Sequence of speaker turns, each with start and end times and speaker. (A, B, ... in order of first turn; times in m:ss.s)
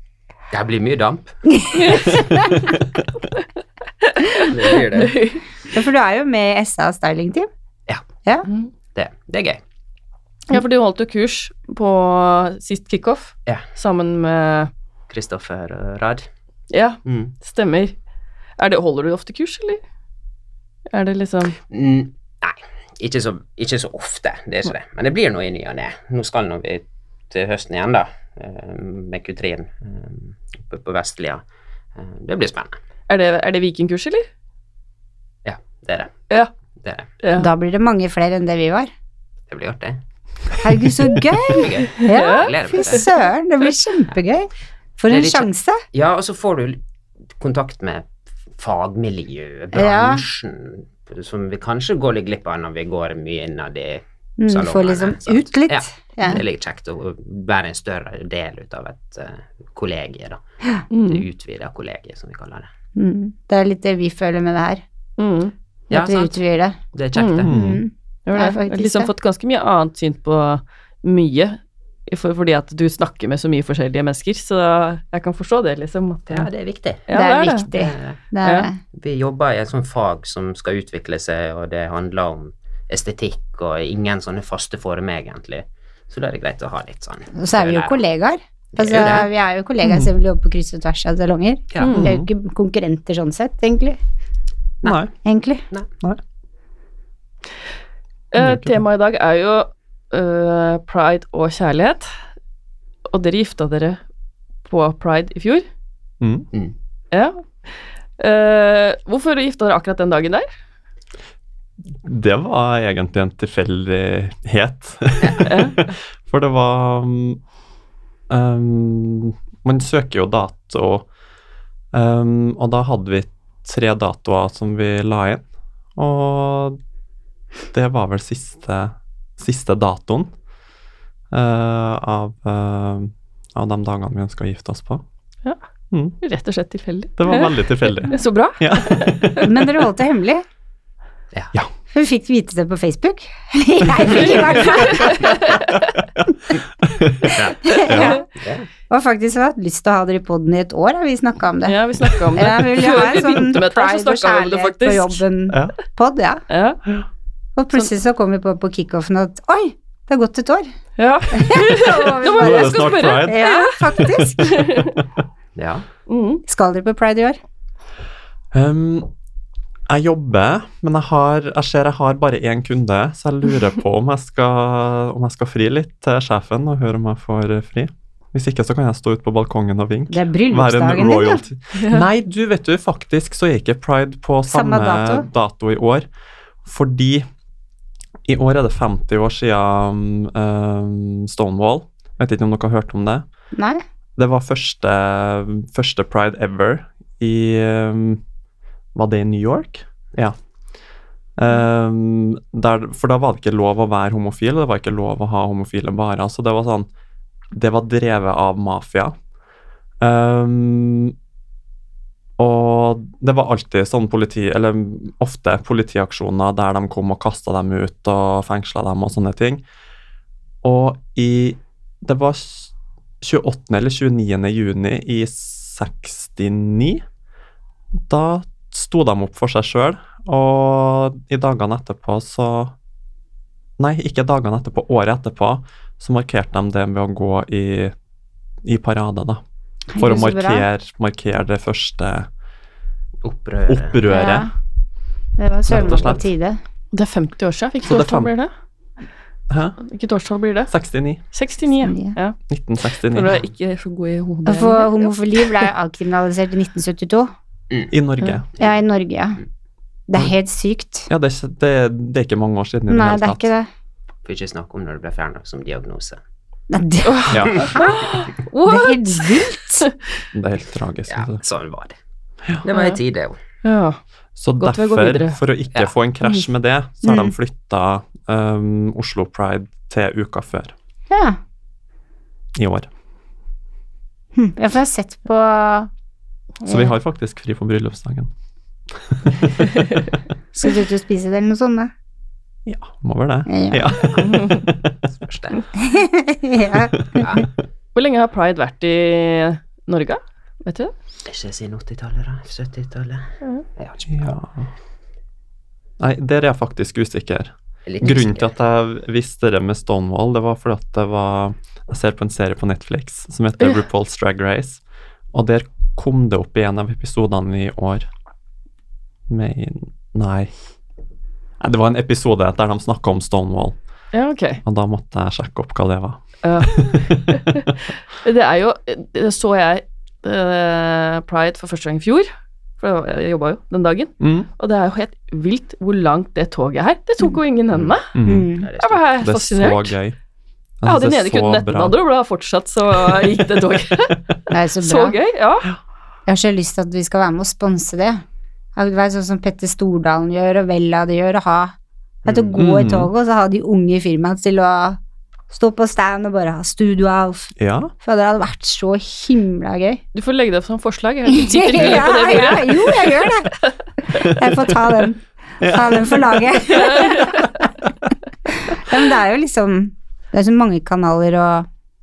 0:00.5-0:01.4 A
0:01.7-0:02.2 B
0:01.8-0:02.2 C
0:04.0-0:05.4 C
0:04.5-0:05.2 A
0:05.7-0:07.5 B
0:09.0-0:09.6 A
0:10.5-0:14.7 C
0:15.1-0:16.3 A
0:16.7-0:18.0 C
0:17.0-0:17.3 A
0:18.6-0:19.8 C
0:20.9-0:21.6 C
0:21.7-0:31.4 A
0:32.0-0:32.8 A
0:33.1-0:34.3 C
0:35.4-0:36.2 A
0:36.8-0:37.1 A
0:37.2-0:37.5 C
0:37.4-0:38.9 B
0:39.5-0:40.0 A
0:40.6-0:45.8 B
0:41.5-0:43.1 A
0:42.0-0:42.9 C
0:45.1-0:46.8 A
0:47.4-1:00.4 A
0:49.7-0:50.2 B
0:54.4-0:56.4 B
1:00.9-1:01.2 C
1:01.1-1:02.7 A
1:03.0-1:04.8 B
1:05.2-1:05.5 C
1:05.9-1:06.4 A
1:05.9-1:06.8 B
1:06.9-1:07.5 A
1:07.2-1:07.5 C
1:07.5-1:07.8 D
1:07.5-1:09.1 B
1:08.3-1:16.5 C
1:16.3-1:17.0 A
1:17.1-1:17.7 C
1:17.1-1:18.8 B
1:17.7-1:18.2 A
1:18.4-1:18.7 C
1:18.9-1:28.0 A
1:27.4-1:34.0 B
1:28.7-1:29.3 A
1:29.8-1:30.1 D
1:31.7-1:32.0 A
1:31.8-1:32.1 C
1:32.0-1:32.3 D
1:34.8-1:35.1 D
1:35.2-1:35.6 B
1:38.3-1:42.1 C
1:38.4-1:38.8 D
1:43.1-1:44.0 C
1:44.7-1:45.7 C
1:46.2-1:46.5 D
1:47.1-1:47.4 C
1:48.2-1:50.5 C
1:52.0-1:57.4 D
1:55.4-1:55.8 C
1:58.3-2:01.1 D
2:01.9-2:06.8 D
2:07.7-2:10.3 D
2:11.3-2:15.0 D
2:16.2-2:19.5 C
2:17.2-2:19.5 D
2:19.4-2:20.4 B
2:21.9-2:25.5 B
2:24.1-2:25.9 C
2:26.8-2:28.2 D
2:27.3-2:27.7 A
2:27.6-2:28.2 B
2:28.4-2:28.7 A
2:28.9-2:36.4 B
2:31.6-2:35.2 C
2:36.5-2:36.8 C
2:37.6-2:40.7 B
2:41.0-2:45.0 C
2:41.3-2:44.6 B
2:42.4-2:44.9 D
2:45.6-2:45.8 A
2:46.1-2:46.4 C
2:46.5-2:47.4 B
2:48.5-2:49.1 D
2:49.9-3:06.1 D
3:00.1-3:01.4 B
3:01.7-3:02.0 C
3:04.5-3:05.3 B
3:06.6-3:07.3 D
3:08.3-3:13.2 D
3:13.6-3:13.8 B
3:14.2-3:18.2 D
3:19.0-3:20.4 D
3:21.4-3:26.9 D
3:27.5-3:29.2 D
3:30.0-3:31.2 D
3:32.4-3:39.6 D
3:40.6-3:42.7 D
3:43.2-3:47.0 D
3:48.1-3:52.7 D
3:53.8-3:57.9 D
3:58.6-3:59.4 D
3:59.9-4:00.7 B
4:00.0-4:02.3 D
4:03.2-4:04.0 A
4:03.7-4:04.5 D
4:04.1-4:04.5 B
4:05.4-4:06.6 B
4:05.7-4:06.2 D
4:05.7-4:06.2 A
4:06.9-4:08.5 C
4:07.8-4:08.3 D
4:09.5-4:09.8 D
4:09.8-4:10.7 C
4:10.7-4:11.2 D
4:11.3-4:12.4 C
4:11.8-4:12.2 B
4:12.5-4:13.4 D
4:13.1-4:15.6 C
4:14.4-4:17.3 B
4:17.9-4:18.5 D
4:18.6-4:19.4 B
4:20.1-4:21.1 B
4:21.1-4:23.5 D
4:22.9-4:23.7 B
4:24.3-4:26.2 A
4:26.7-4:28.0 B
4:27.0-4:29.9 C
4:27.3-4:27.7 D
4:28.6-4:29.9 B
4:30.3-4:31.4 D
4:31.1-4:32.0 A
4:32.6-4:33.4 A
4:32.7-4:33.0 C
4:33.6-4:34.0 C
4:34.4-4:40.7 D
4:34.6-4:35.4 C
4:37.0-4:37.4 B
4:41.1-4:41.4 B
4:42.6-4:42.9 D
4:44.4-4:45.9 B
4:46.6-4:46.9 B
4:46.7-4:48.3 D
4:49.0-4:49.6 D
4:50.5-4:51.9 B
4:52.7-4:54.8 D
4:53.5-4:54.1 B
4:54.2-4:54.6 C
4:55.1-4:55.6 A
4:55.8-4:57.3 B
4:57.2-4:57.5 A
4:58.0-5:00.9 C
5:01.3-5:04.4 A
5:04.1-5:04.7 D
5:06.0-5:14.8 D
5:07.9-5:08.5 A
5:15.3-5:18.1 D
5:19.3-5:20.5 D
5:21.6-5:23.8 D
5:24.1-5:24.6 C
5:24.6-5:27.2 D
5:26.4-5:27.6 C
5:28.2-5:38.2 C
5:34.2-5:34.5 D
5:38.2-5:38.5 D
5:38.2-5:38.7 B
5:38.6-5:39.0 A
5:38.8-5:40.0 C
5:39.2-5:40.2 D
5:40.8-5:42.0 D
5:40.8-5:44.1 C
5:44.5-5:45.2 B
5:44.8-5:45.7 C
5:46.3-5:48.2 B
5:48.8-5:55.0 B
5:52.2-5:52.6 A
5:52.6-5:53.1 D
5:55.5-6:00.0 B
5:57.6-5:57.9 D
6:00.1-6:03.3 C
6:01.3-6:03.5 B
6:04.2-6:07.5 B
6:05.6-6:06.4 D
6:06.7-6:07.5 C
6:08.7-6:11.7 B